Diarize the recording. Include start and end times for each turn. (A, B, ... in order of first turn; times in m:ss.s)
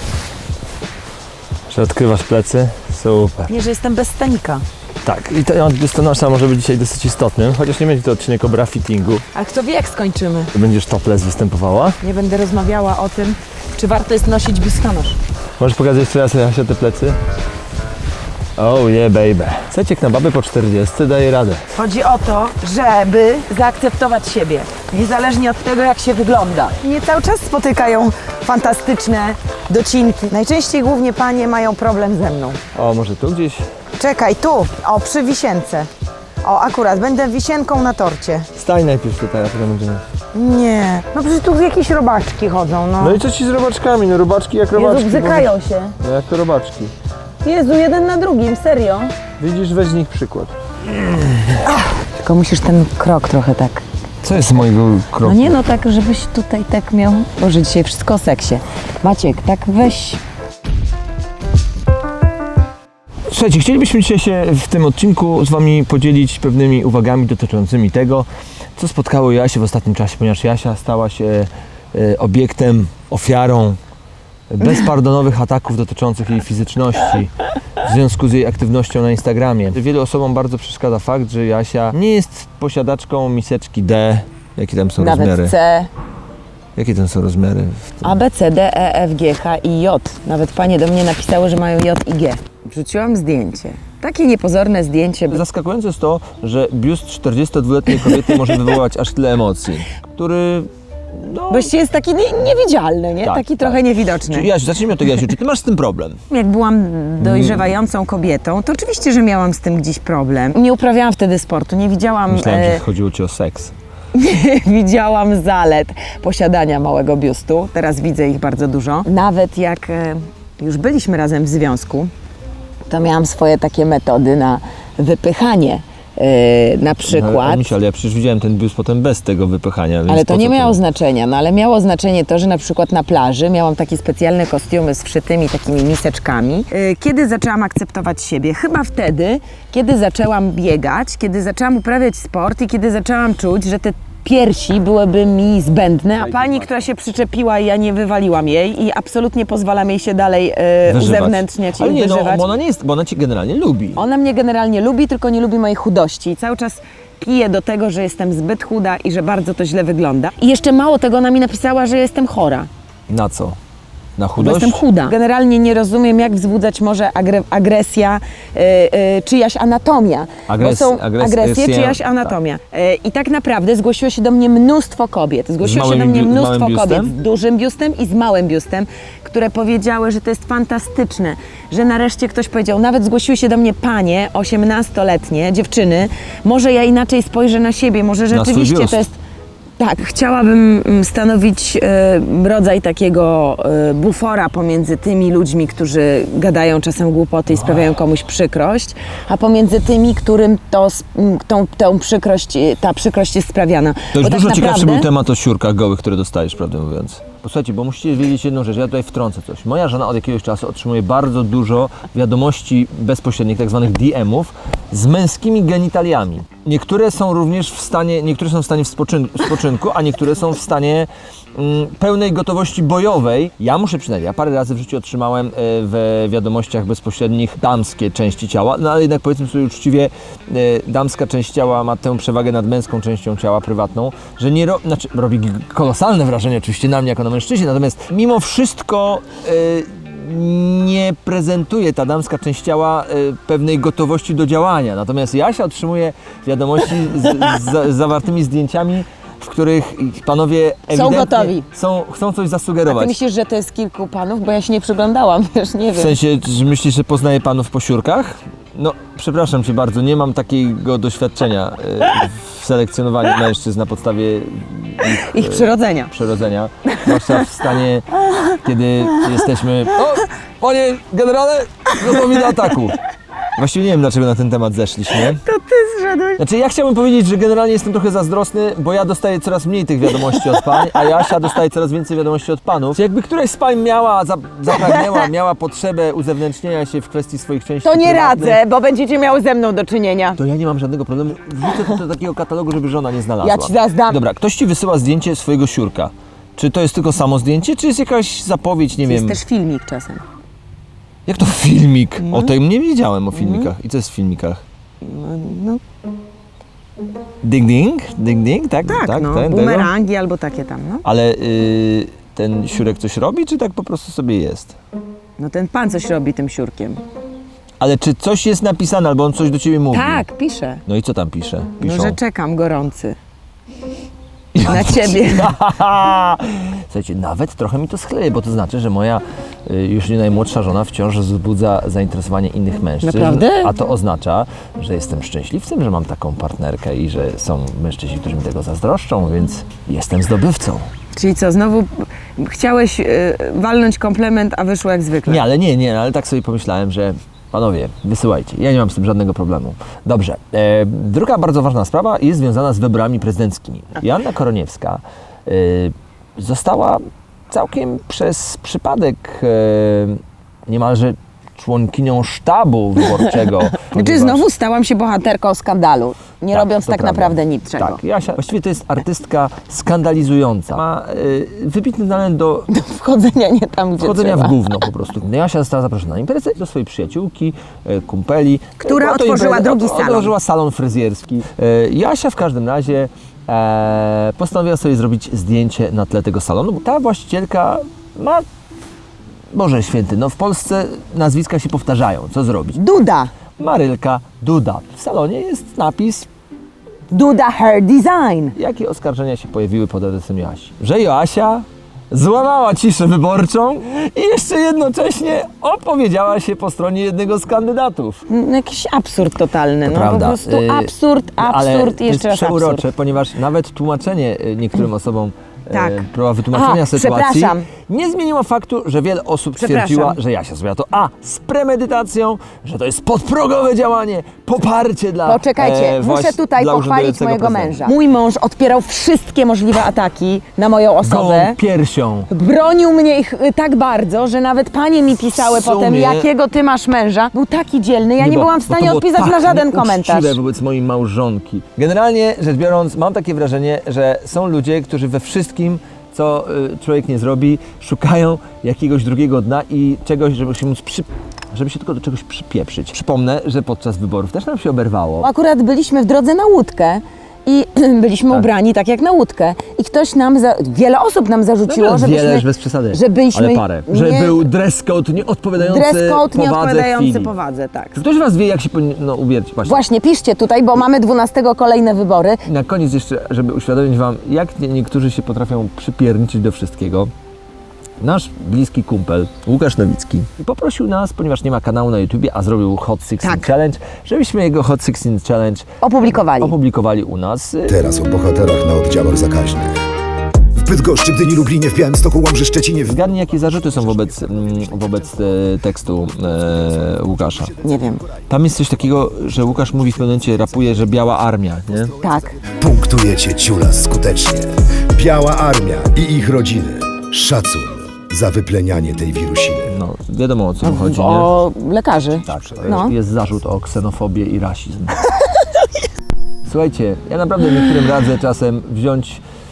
0:01.7-0:03.5 A
0:03.5-0:04.6 B
0:05.0-0:09.2 A
0:09.3-0:10.5 B
0:10.5-0:12.0 A
0:12.0-0:15.2 B
0:15.6-0:17.2 A
0:18.6-0:21.6 A
0:21.7-0:32.6 B
0:32.7-0:33.6 A
0:34.0-0:35.9 B
0:36.4-0:38.5 B
0:38.6-0:40.0 A
0:40.3-0:43.2 B
0:43.0-0:46.9 A
0:44.7-0:46.0 B
0:47.4-0:49.1 B
0:49.4-0:51.6 A
0:51.7-0:53.8 B
0:54.2-0:55.6 A
0:55.2-1:00.2 B
1:03.3-1:13.8 A
1:14.5-1:25.6 A
1:25.0-1:25.9 B
1:26.8-1:28.2 A
1:28.0-1:35.4 B
1:35.3-1:41.7 A
1:38.0-1:38.8 B
1:41.5-1:44.5 B
1:43.2-1:46.2 A
1:46.3-1:52.8 B
1:47.2-1:47.6 A
1:52.3-1:53.7 A
1:54.1-2:02.1 B
2:02.9-2:07.7 B
2:07.0-2:10.8 A
2:10.1-2:32.5 B
2:30.8-2:34.0 A
2:34.0-2:42.7 B
2:43.1-2:43.6 A
2:44.2-2:44.8 A
2:44.4-3:09.2 B
2:50.5-2:52.4 A
2:55.6-2:57.1 A
3:08.3-3:09.0 A
3:09.8-3:25.1 B
3:24.1-4:13.2 A
4:10.9-4:11.7 B
4:12.9-4:16.2 B
4:15.9-4:33.0 A
4:25.0-4:26.1 B
4:26.9-4:27.6 B
4:28.3-4:28.6 B
4:32.0-4:32.8 B
4:33.5-4:35.4 A
4:35.1-4:36.4 B
4:36.4-4:48.6 A
4:40.2-4:41.0 B
4:44.7-4:45.2 B
4:47.8-4:50.4 B
4:50.4-4:59.4 A
4:53.4-4:54.2 B
4:59.0-5:00.2 B
5:01.2-5:04.6 A
5:02.2-5:02.5 B
5:03.3-5:03.7 B
5:05.0-5:05.8 B
5:07.4-5:09.9 A
5:08.8-5:11.0 B
5:11.0-5:14.8 A
5:15.4-5:17.0 B
5:17.8-5:20.2 A
5:19.9-5:20.8 B
5:20.8-5:22.2 A
5:21.8-5:23.2 B
5:24.6-5:40.9 A
5:24.6-5:25.6 B
5:33.0-5:33.7 B
5:41.2-5:45.4 B
5:45.2-6:04.5 A
6:03.1-6:08.0 B
6:06.5-6:12.7 A
6:12.7-6:14.8 B
6:14.0-6:28.5 A
6:18.8-6:20.4 B
6:29.5-6:32.8 A
6:32.8-6:33.3 B
6:33.6-6:36.3 A
6:37.1-6:38.6 B
6:38.6-6:48.2 A
6:48.3-6:52.9 B
6:49.8-7:07.8 A
6:55.7-6:57.7 B
6:59.6-7:00.2 B
7:05.2-7:11.6 B
7:11.0-7:12.3 A
7:12.3-7:20.4 B
7:15.3-7:16.3 A
7:18.2-7:35.3 A
7:35.2-7:44.5 B
7:41.7-7:47.3 A
7:45.6-7:47.9 B
7:47.9-7:49.8 A
7:49.6-7:52.4 B
7:52.4-7:57.1 A
7:58.0-8:07.9 A
8:03.2-8:03.5 B
8:05.8-8:06.6 B
8:07.7-8:09.8 C
8:10.6-8:12.9 C
8:12.8-8:17.5 A
8:17.6-8:18.0 B
8:18.3-8:22.0 A
8:22.0-8:22.4 B
8:22.4-8:29.7 C
8:29.6-8:31.3 A
8:30.6-8:32.9 B
8:32.2-8:35.0 A
8:35.0-8:35.6 B
8:36.4-8:39.2 A